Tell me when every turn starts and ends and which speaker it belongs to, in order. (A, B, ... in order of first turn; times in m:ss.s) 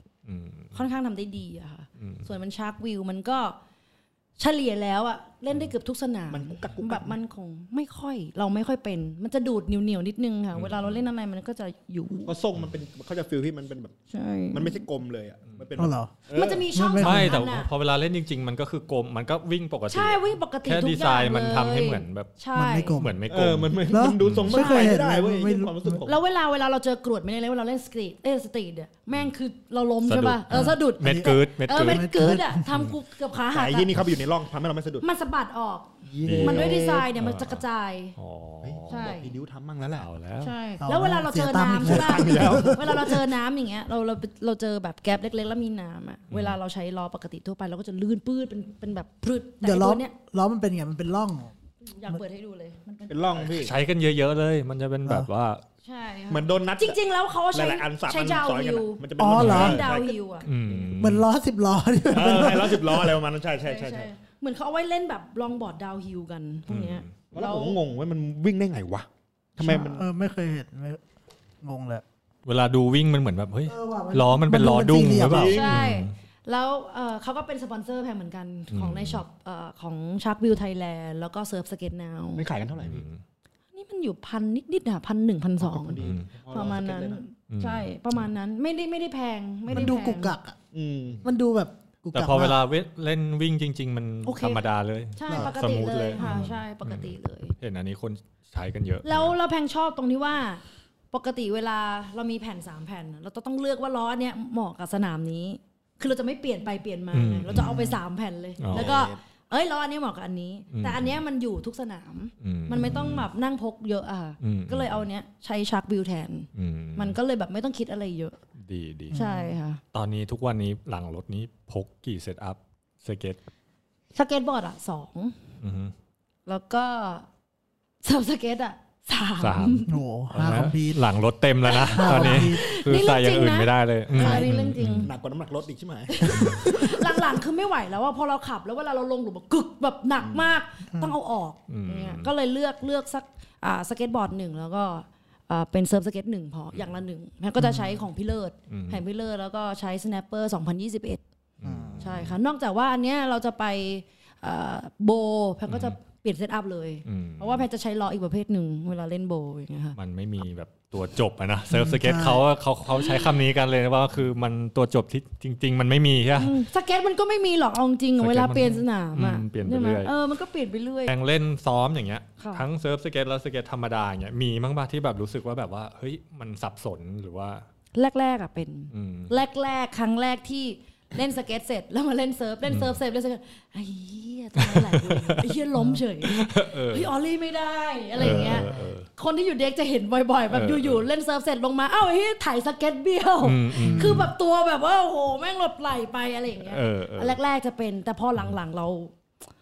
0:00.2-0:00.8 A
0:00.7-0:03.6 B
0:02.0-0:02.2 A
0:04.4-0:12.3 B
0:06.3-0:07.2 C
0:10.5-0:11.0 A
0:12.3-0:14.0 C
0:14.1-0:14.9 B
0:14.5-0:16.7 C
0:15.8-0:16.1 D
0:16.3-0:17.7 B
0:16.7-0:17.4 D
0:17.0-0:22.3 A
0:19.9-0:23.0 B
0:22.5-0:23.2 D
0:22.9-0:24.5 A
0:23.3-0:26.2 C
0:23.9-0:26.0 D
0:24.5-0:25.0 B
0:26.0-0:33.9 B
0:30.0-0:32.1 A
0:30.5-0:32.7 D
0:33.5-0:35.1 C
0:35.0-0:38.1 B
0:36.0-0:37.1 C
0:36.2-0:37.6 A
0:38.2-0:39.1 A
0:38.6-0:40.1 C
0:38.9-0:39.4 B
0:40.0-0:40.5 A
0:40.4-0:50.1 B
0:40.8-0:43.0 D
0:41.8-0:43.2 C
0:46.3-0:46.6 A
0:49.6-0:51.5 D
0:51.8-0:53.3 B
0:53.1-0:53.7 C
0:53.3-0:55.6 A
0:55.8-1:00.5 B
0:56.3-0:57.0 C
0:57.5-1:00.9 C
0:59.2-0:59.9 D
0:59.3-0:59.8 A
1:00.4-1:01.2 A
1:01.0-1:03.2 D
1:02.1-1:04.1 C
1:03.6-1:07.8 B
1:06.7-1:07.1 A
1:07.3-1:10.1 C
1:09.6-1:11.0 D
1:11.6-1:12.0 D
1:12.4-1:16.1 A
1:13.7-1:15.6 D
1:15.3-1:15.8 C
1:15.5-1:22.4 B
1:18.7-1:19.2 A
1:22.4-1:23.0 C
1:22.8-1:23.2 A
1:23.7-1:30.3 B
1:25.6-1:27.2 C
1:26.0-1:26.3 A
1:27.5-1:27.9 A
1:29.7-1:30.6 D
1:30.7-1:31.2 C
1:31.2-1:32.6 D
1:32.1-1:39.3 A
1:34.2-1:37.6 B
1:39.0-1:58.4 B
1:47.1-1:47.8 A
1:47.5-1:48.0 D
1:48.6-1:49.0 A
1:48.7-1:49.2 C
1:50.7-1:51.2 A
1:52.4-1:53.3 A
1:52.8-1:53.1 D
1:54.4-1:55.0 A
1:56.5-1:57.2 A
1:58.6-1:59.2 A
1:59.1-1:59.6 D
1:59.1-1:59.8 B
1:59.9-2:03.4 A
2:04.1-2:05.3 B
2:05.6-2:05.9 A
2:06.4-2:07.3 B
2:08.0-2:09.9 B
2:09.4-2:15.1 A
2:09.9-2:11.0 D
2:11.6-2:15.1 B
2:11.9-2:12.6 D
2:14.1-2:14.4 D
2:15.0-2:17.2 C
2:16.1-2:31.2 B
2:16.3-2:16.7 A
2:20.2-2:20.5 C
2:20.9-2:21.2 D
2:21.7-2:22.3 A
2:27.6-2:27.9 D
2:28.7-2:29.0 A
2:31.6-2:32.4 A
2:31.6-2:32.1 D
2:32.0-2:40.0 B
2:35.7-2:36.0 A
2:37.0-2:37.6 A
2:40.0-2:46.6 A
2:41.7-2:42.4 D
2:46.4-2:51.1 B
2:48.2-2:50.1 A
2:51.1-2:57.6 A
2:52.4-2:52.6 B
2:57.9-3:19.1 B
2:58.9-2:59.3 A
3:02.7-3:02.9 A
3:04.6-3:05.6 A
3:05.7-3:06.0 D
3:06.2-3:07.1 A
3:08.2-3:08.9 D
3:08.2-3:09.0 A
3:10.5-3:11.0 A
3:13.4-3:14.3 A
3:13.8-3:14.3 D
3:16.6-3:17.4 A